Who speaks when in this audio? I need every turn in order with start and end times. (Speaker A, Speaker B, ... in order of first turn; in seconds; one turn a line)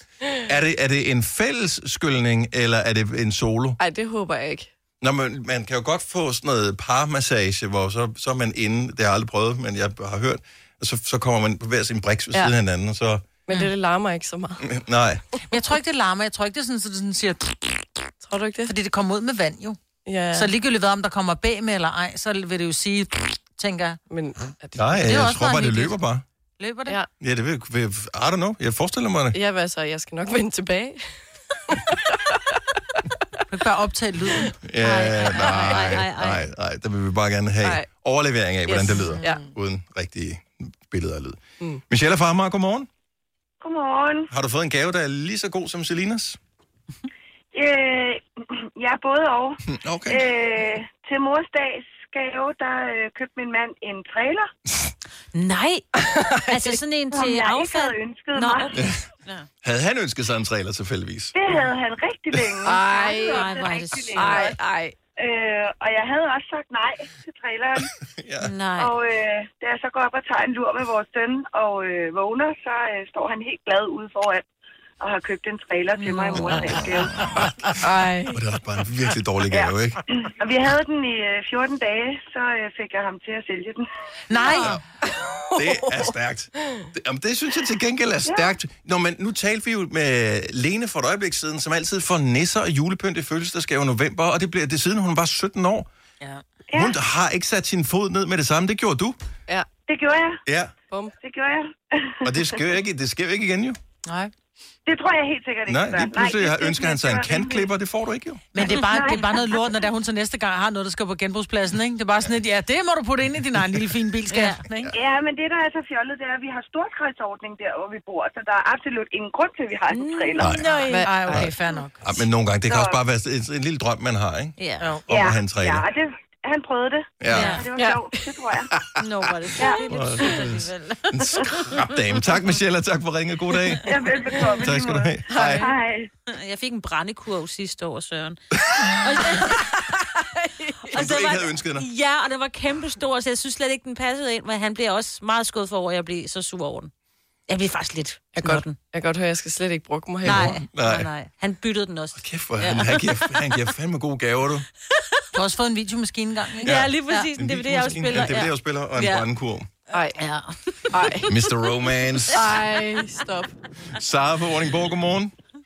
Speaker A: 0.5-3.8
Speaker B: 3.8-4.7
Speaker A: 5.0-13.3
Speaker B: 13.5-14.6
Speaker A: 14.6-15.2
Speaker C: 15.5-17.8
Speaker B: 18.2-18.7
Speaker C: 18.6-19.8
Speaker B: 20.1-20.5
Speaker C: 20.3-24.0
Speaker B: 24.1-25.1
Speaker A: 24.8-26.2
Speaker C: 25.0-26.0
Speaker C: 26.6-27.0
Speaker A: 27.2-29.4
Speaker B: 29.3-31.0
Speaker B: 31.7-32.6
Speaker C: 33.5-34.5
Speaker A: 34.6-42.9
Speaker D: 34.8-36.4
Speaker B: 38.7-39.4
Speaker E: 43.6-44.3
Speaker A: 44.3-46.4
Speaker E: 47.5-54.5
Speaker A: 49.6-50.2
Speaker D: 55.3-59.5
Speaker E: 57.1-58.8
Speaker A: 58.7-59.0
Speaker A: 59.6-61.4
Speaker E: 61.3-64.5
Speaker B: 62.6-64.9
Speaker D: 63.2-64.5
Speaker E: 65.2-67.9
Speaker A: 67.8-68.5
Speaker D: 68.4-68.9
Speaker E: 68.8-74.4
Speaker E: 75.0-77.4
Speaker D: 76.0-76.9
Speaker A: 77.1-77.5
Speaker B: 77.8-78.4
Speaker A: 78.3-80.0
Speaker E: 79.5-83.8
Speaker C: 84.3-84.8
Speaker A: 85.5-95.9
Speaker B: 85.6-86.0
Speaker E: 88.2-88.6
Speaker E: 96.7-97.0
Speaker A: 96.7-99.2
Speaker E: 99.9-100.4
Speaker A: 100.5-100.7
Speaker E: 101.2-102.6
Speaker A: 102.2-103.8
Speaker C: 104.0-104.3
Speaker E: 104.8-107.7
Speaker A: 105.7-108.4
Speaker C: 108.5-114.9
Speaker D: 108.6-109.2
Speaker E: 108.7-109.3
Speaker D: 114.3-114.6
Speaker E: 114.9-120.5
Speaker D: 119.9-121.1
Speaker A: 120.4-120.6
Speaker B: 120.8-121.5
Speaker C: 121.0-122.0
Speaker A: 122.0-124.6
Speaker E: 122.7-123.0
Speaker D: 124.6-124.9
Speaker A: 125.1-125.8
Speaker E: 125.5-128.7
Speaker A: 127.2-127.6
Speaker D: 127.3-127.7
Speaker B: 127.7-128.3
Speaker D: 129.0-131.5
Speaker E: 129.6-129.8
Speaker A: 129.6-134.0
Speaker E: 133.8-136.1
Speaker A: 134.6-135.7
Speaker B: 135.3-135.7
Speaker D: 136.3-138.4
Speaker D: 138.9-139.6
Speaker B: 140.5-140.9
Speaker D: 140.8-146.9
Speaker A: 140.9-141.8
Speaker D: 147.5-148.8
Speaker B: 148.3-150.6
Speaker A: 150.2-151.1
Speaker D: 150.2-152.8
Speaker A: 152.1-154.7
Speaker C: 155.3-157.2
Speaker D: 156.6-159.2
Speaker A: 156.6-159.7
Speaker B: 159.9-160.2
Speaker D: 160.2-160.8
Speaker B: 160.9-161.3
Speaker A: 161.2-162.5
Speaker B: 162.3-163.5
Speaker A: 163.9-165.3